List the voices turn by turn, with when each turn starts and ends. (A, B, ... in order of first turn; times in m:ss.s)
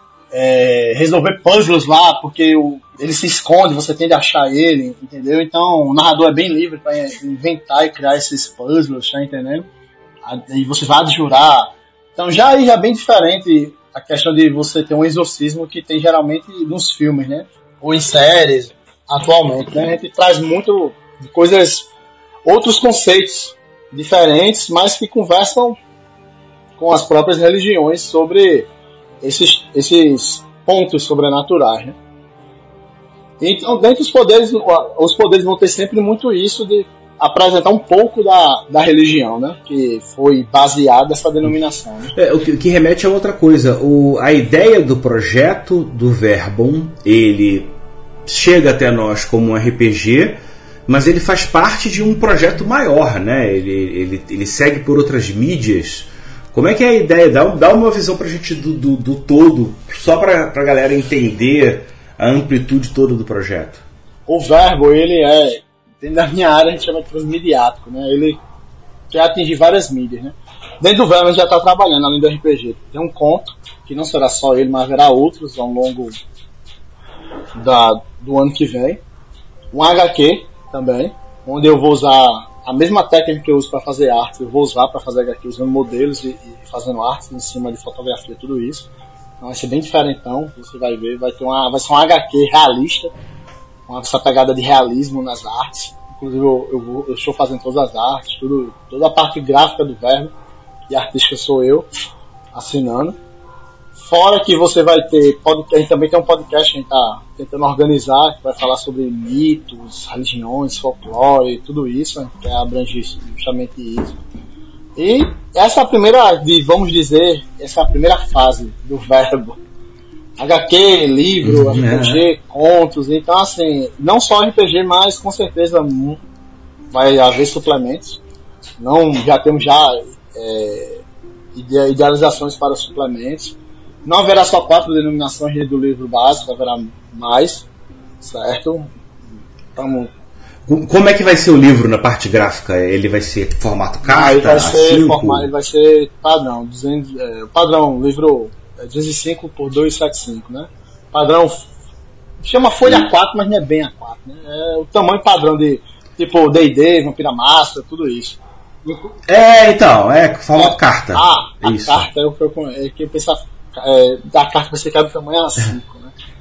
0:00.3-0:09.7 A
0:10.2-0:21.9 A
0:22.4-0:25.8 A
0:26.8-0:28.7 A
0:29.2-0:32.0 A
0:33.4-0:42.2 A
0:42.1-0:47.7 B
0:48.2-1:03.8 B
1:04.3-1:08.4 A
1:09.1-1:16.1 A
1:17.6-1:19.0 A
1:19.7-1:28.9 A
1:29.4-1:33.1 A
1:33.9-1:40.3 A
1:40.9-1:41.9 A
1:42.5-1:43.2 A
1:44.0-1:54.2 A
1:55.0-1:59.6 A
2:00.4-2:06.2 A
2:01.4-2:02.2 B
2:06.9-2:08.2 A
2:08.8-2:11.0 A
2:11.5-2:17.7 A
2:18.2-2:18.9 A
2:19.8-2:20.1 A
2:20.6-2:25.5 B
2:24.0-2:31.7 A
2:32.4-2:39.2 A
2:39.3-2:42.1 B
2:40.6-2:46.1 A